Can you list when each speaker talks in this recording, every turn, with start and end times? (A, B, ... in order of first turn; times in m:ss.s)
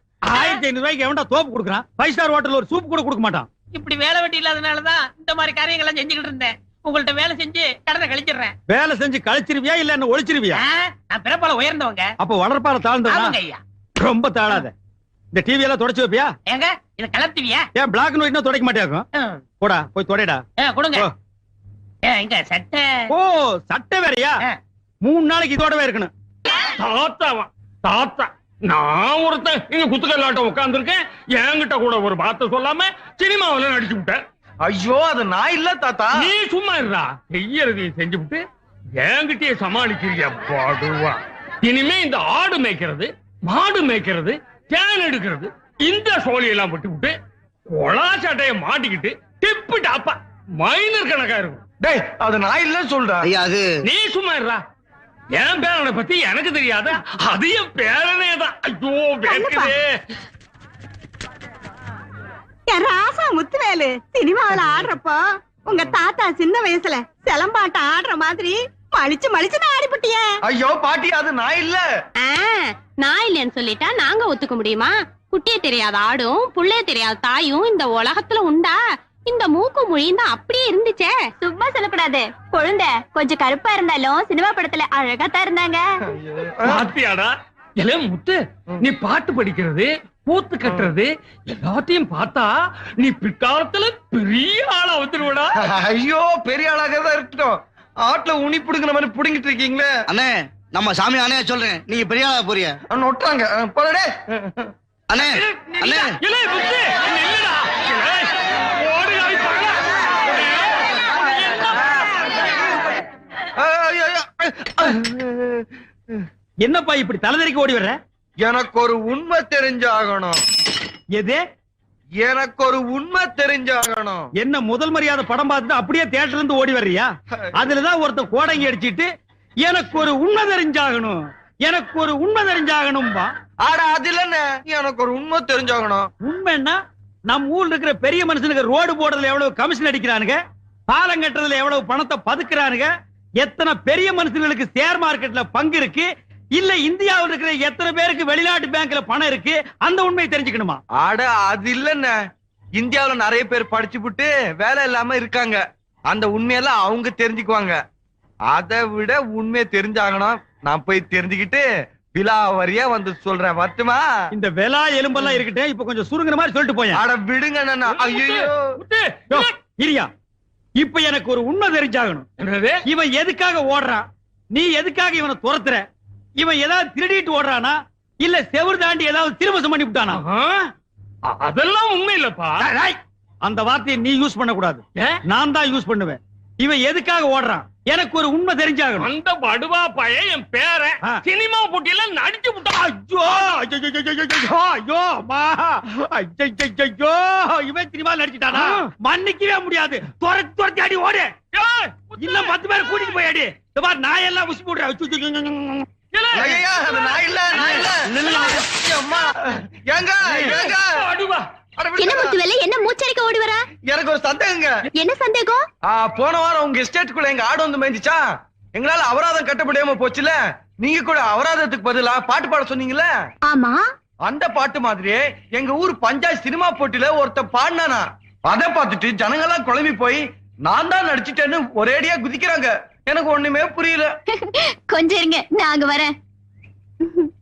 0:00.2-0:03.5 A
0:03.7-0:08.6 B
0:08.7-0:10.6 A
0:10.5-0:12.1 B
0:12.2-0:13.4 A
0:13.1-0:13.6 B
0:14.0-0:14.8 A
0:15.3-0:16.3 A
0:16.5-0:17.7 B
0:17.8-0:19.1 A
0:19.6-0:20.4 A
0:20.6-0:21.1 B
0:22.0-0:23.1 B
0:23.1-0:24.4 A
0:25.0-0:26.1 A
0:26.8-0:34.2 C
0:34.7-0:36.3 D
0:36.1-0:38.4 C
0:39.0-0:47.2 C
0:47.7-0:51.6 C
0:51.8-0:53.3 D
0:53.2-0:53.7 E
0:53.8-0:54.6 C
0:55.4-1:00.0 C
0:59.3-0:59.7 F
1:02.7-1:10.2 F
1:10.5-1:11.8 D
1:12.2-1:21.2 G
1:21.4-1:25.8 H
1:26.1-1:26.9 D
1:26.6-1:35.5 C
1:35.6-1:39.9 D
1:40.1-1:42.8 E
1:42.9-1:44.7 D
1:45.1-1:46.2 E
1:45.4-1:52.5 C
1:53.6-1:56.2 D
1:56.6-1:58.0 A
1:58.4-2:00.4 D
2:01.2-2:01.4 A
2:02.2-2:04.3 D
2:04.4-2:09.1 A
2:09.6-2:13.3 A
2:13.6-2:16.1 D
2:16.2-2:30.8 A
2:31.0-2:32.2 D
2:32.8-2:37.8 D
2:38.5-2:44.0 D
2:44.3-2:47.0 A
2:46.9-2:48.7 D
2:47.9-2:49.6 C
2:49.3-2:50.1 A
2:50.8-2:52.3 A
2:52.4-2:52.8 C
2:52.9-2:55.8 A
2:56.4-3:00.2 A
3:00.1-3:00.7 C
3:01.3-3:02.7 C
3:02.6-3:09.1 A
3:09.0-3:12.9 C
3:12.8-3:21.3 A
3:18.5-3:18.9 C
3:21.5-3:22.6 C
3:22.2-3:25.9 A
3:26.1-3:28.7 C
3:26.3-3:31.0 D
3:30.3-3:31.5 C
3:31.8-3:32.4 D
3:32.0-3:33.6 H
3:33.9-3:34.7 D
3:35.0-3:35.6 H
3:35.9-3:43.1 D
3:43.5-3:43.8 H
3:44.3-3:54.1 D
3:54.3-3:56.1 H